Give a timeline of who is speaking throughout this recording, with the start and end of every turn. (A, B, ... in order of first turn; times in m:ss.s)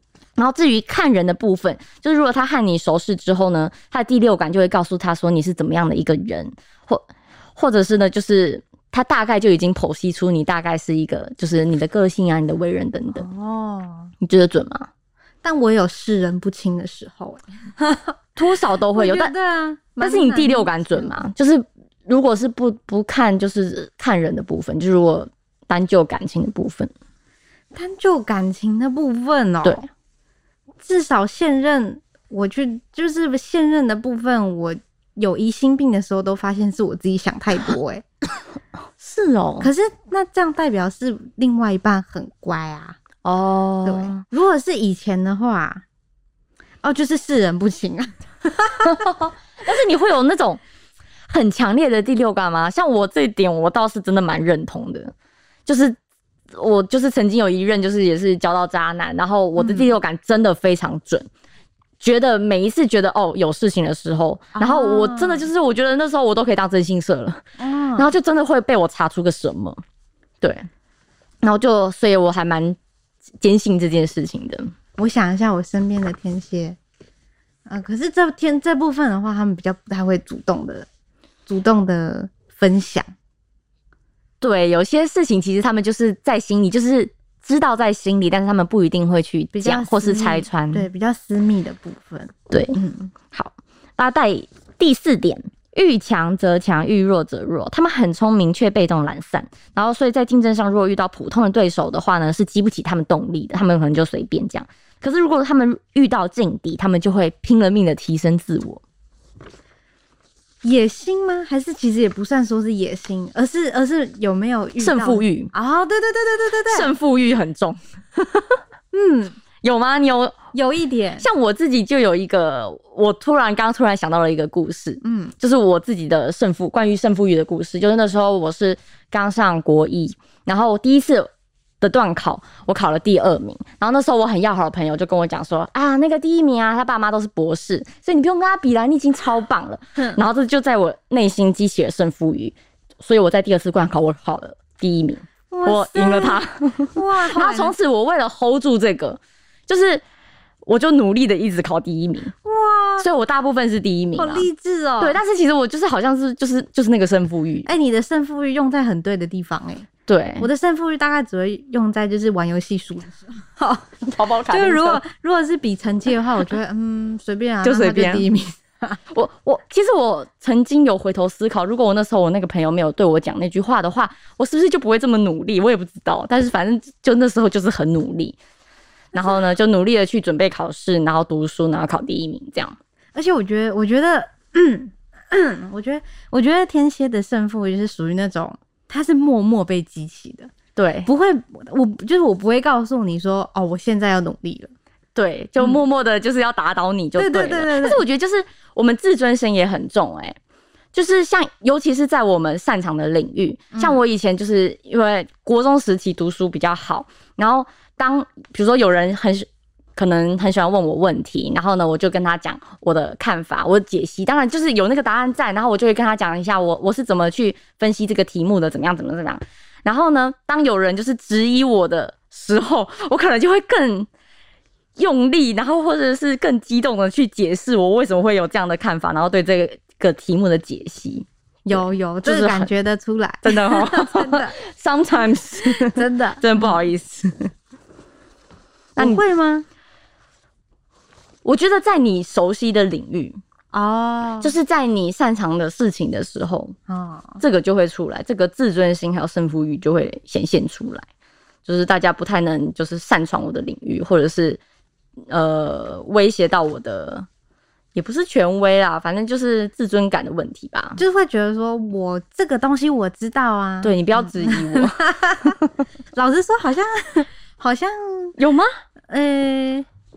0:00.4-0:13.2 A
0:13.1-0:14.1 B
0:14.2-0:14.9 A
0:15.4-0:18.2 B
0:18.4-0:19.3 A
0:18.9-0:21.1 B
0:20.0-0:26.9 A
0:27.7-0:29.9 B
0:30.8-0:38.0 B
0:39.0-0:39.7 A
0:39.6-0:43.0 B
0:43.2-0:44.2 A
0:43.8-0:45.8 B
0:46.8-0:49.0 B
0:48.8-0:50.6 A
0:51.3-0:55.1 A
0:55.7-0:56.0 A
0:56.5-1:01.3 A
0:59.6-0:59.9 B
1:02.0-1:07.4 A
1:04.6-1:05.5 B
1:07.6-1:08.1 B
1:08.0-1:09.8 A
1:10.4-1:10.7 A
1:11.4-1:12.8 A
1:13.4-1:14.7 A
1:15.0-1:16.8 B
1:17.7-1:20.9 B
1:21.5-1:23.1 B
1:24.4-1:30.9 A
1:29.5-1:33.1 B
1:32.5-1:32.8 A
1:33.3-1:48.8 A
1:50.6-1:56.9 B
1:54.8-1:55.5 A
1:56.7-1:58.6 A
1:58.9-1:59.4 B
1:59.6-2:00.4 A
2:00.5-2:01.3 B
2:01.2-2:11.3 A
2:05.0-2:05.3 B
2:11.8-2:30.0 A
2:25.5-2:26.4 B
2:27.0-2:27.7 B
2:30.6-2:32.3 A
2:32.4-2:33.1 B
2:33.0-2:34.5 A
2:34.2-2:35.2 B
2:35.0-2:37.7 A
2:37.7-2:39.9 B
2:40.1-2:40.5 A
2:40.4-2:44.0 B
2:44.0-2:45.0 A
2:44.5-2:49.0 B
2:47.6-2:48.3 A
2:49.1-2:58.4 A
2:59.1-3:02.8 A
3:03.2-3:10.5 B
3:10.8-3:11.1 A
3:11.0-3:14.7 B
3:15.2-3:20.4 A
3:17.2-3:18.0 B
3:20.9-3:44.1 A
3:23.7-3:24.0 B
3:45.0-3:52.7 A
3:51.7-3:54.6 B
3:53.4-3:57.5 A
3:55.6-3:56.8 B
3:59.0-3:59.2 A
3:59.0-3:59.7 B
4:01.4-4:03.4 A
4:03.7-4:04.6 B
4:04.4-4:06.8 A
4:06.9-4:07.4 B
4:07.4-4:11.1 A
4:11.7-4:14.6 A
4:15.3-4:17.3 A
4:18.0-4:21.0 A
4:21.0-4:25.6 B
4:23.8-4:25.7 A
4:26.2-4:28.4 B
4:28.4-4:28.7 A
4:29.1-4:29.9 B